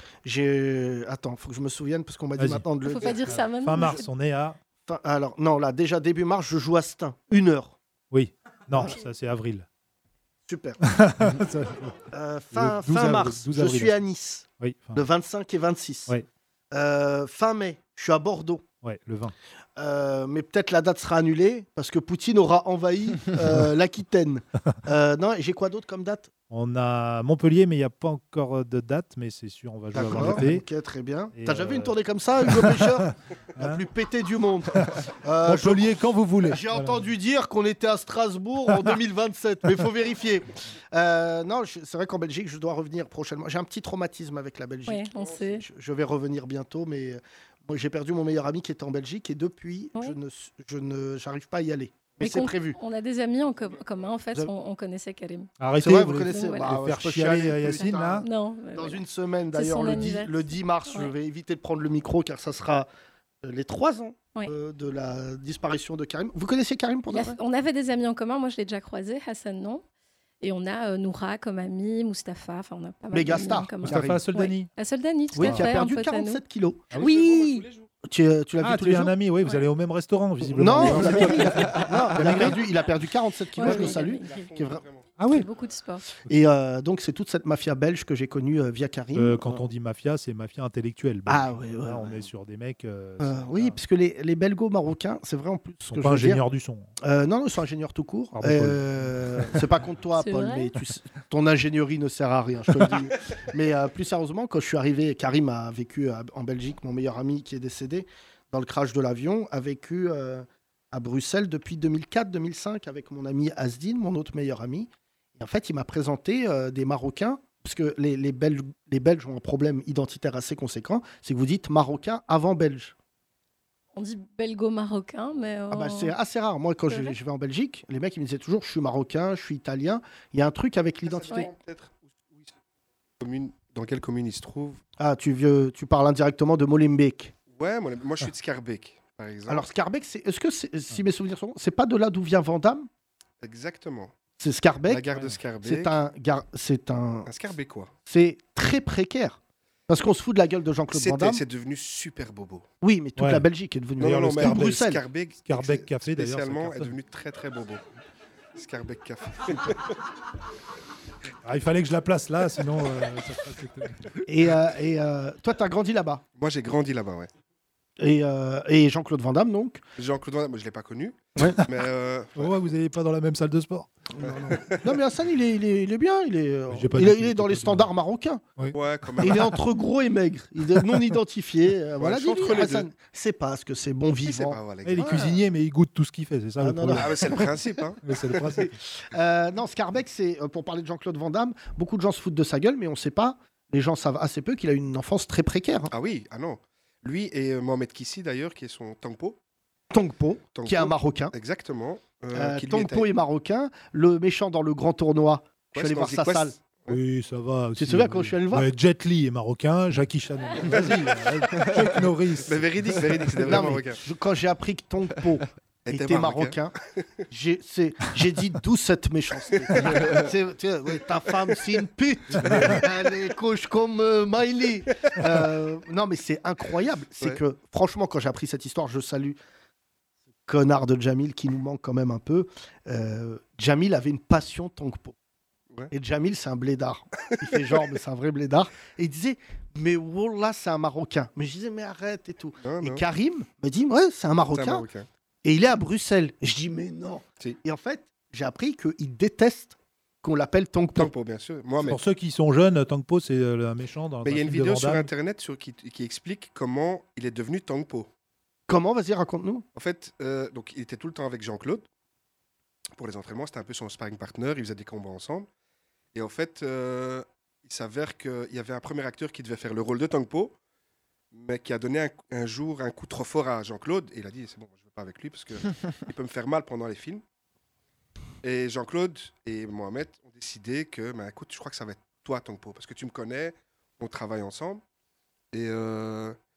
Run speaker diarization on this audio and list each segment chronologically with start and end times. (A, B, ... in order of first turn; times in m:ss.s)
0:00.2-0:03.3 A
0:02.4-0:04.6 B
0:02.8-0:04.1 C
0:04.8-0:07.8 A
0:08.1-0:09.7 B
0:10.5-0:10.8 A
0:10.8-0:14.0 B
0:12.1-0:16.1 A
0:14.6-0:15.0 B
0:16.7-0:18.6 A
0:18.8-0:19.3 B
0:19.8-0:26.3 A
0:26.5-0:30.6 B
0:29.9-0:52.8 A
0:31.3-0:33.8 B
0:34.8-0:37.0 B
0:44.9-0:45.6 C
0:52.2-0:55.5 C
0:53.4-0:54.1 D
0:55.6-0:58.2 B
0:55.8-1:02.9 A
0:56.2-0:56.8 C
0:57.7-1:01.1 C
1:03.4-1:07.4 A
1:07.1-1:09.8 C
1:10.4-1:16.4 C
1:13.1-1:14.2 A
1:13.8-1:14.7 B
1:15.3-1:17.0 A
1:15.4-1:15.7 B
1:16.9-1:17.9 D
1:17.0-1:17.6 C
1:18.1-1:19.1 A
1:18.6-1:22.6 B
1:20.5-1:24.8 A
1:23.5-1:24.4 C
1:23.6-1:25.2 D
1:25.2-1:25.5 B
1:25.2-1:26.0 C
1:26.2-1:29.6 A
1:29.1-1:33.8 B
1:31.3-1:32.3 A
1:33.2-1:36.4 A
1:35.9-1:36.9 B
1:37.0-2:02.9 A
1:38.3-1:39.6 B
1:40.2-1:40.7 C
2:03.9-2:06.1 C
2:05.7-2:11.5 A
2:06.9-2:07.1 C
2:11.0-2:12.5 D
2:13.2-2:14.8 D
2:15.0-2:17.3 A
2:17.5-2:19.7 D
2:19.5-2:22.9 A
2:23.4-2:24.1 D
2:24.4-2:25.1 A
2:24.9-2:26.0 D
2:25.1-2:25.4 B
2:25.6-2:27.3 A
2:27.2-2:27.9 D
2:28.0-2:29.4 A
2:29.9-2:31.4 A
2:30.9-2:32.6 D
2:32.8-2:35.0 A
2:33.2-2:33.5 B
2:34.0-2:36.9 B
2:34.0-2:37.8 D
2:38.5-2:40.0 D
2:41.4-2:44.2 B
2:44.2-2:46.2 A
2:46.3-2:47.3 D
2:48.0-2:49.8 A
2:50.0-2:52.5 D
2:52.4-2:53.9 B
2:54.1-2:58.4 A
2:54.2-2:55.0 D
2:56.7-2:57.9 B
2:58.6-2:59.6 B
2:58.7-2:59.6 D
2:59.2-3:05.4 A
3:02.0-3:02.9 D
3:04.2-3:05.4 D
3:04.8-3:07.5 B
3:06.6-3:07.5 A
3:06.9-3:08.7 D
3:08.0-3:08.7 B
3:09.1-3:15.9 A
3:15.9-3:19.4 D
3:19.9-3:21.3 A
3:20.5-3:23.1 D
3:22.3-3:26.6 A
3:25.7-3:27.0 D
3:26.9-3:33.8 B
3:27.8-3:28.7 A
3:30.6-3:31.0 D
3:31.7-3:34.0 D
3:33.4-3:36.7 A
3:35.8-3:36.6 D
3:37.3-3:49.4 A
3:39.5-3:40.3 D
3:41.5-3:41.7 D
3:45.1-3:45.4 D
3:50.5-3:55.1 A
3:55.9-4:04.8 A
3:57.4-3:57.8 D
4:02.6-4:03.0 D
4:04.5-4:05.1 D
4:05.4-4:11.1 A
4:11.0-4:12.0 D
4:11.9-4:15.1 B
4:14.2-4:18.1 D
4:18.7-4:19.6 A
4:19.7-4:21.8 D
4:23.0-4:25.5 D
4:26.1-4:30.5 D
4:31.3-4:37.2 D
4:38.4-4:44.8 D
4:45.5-4:46.4 D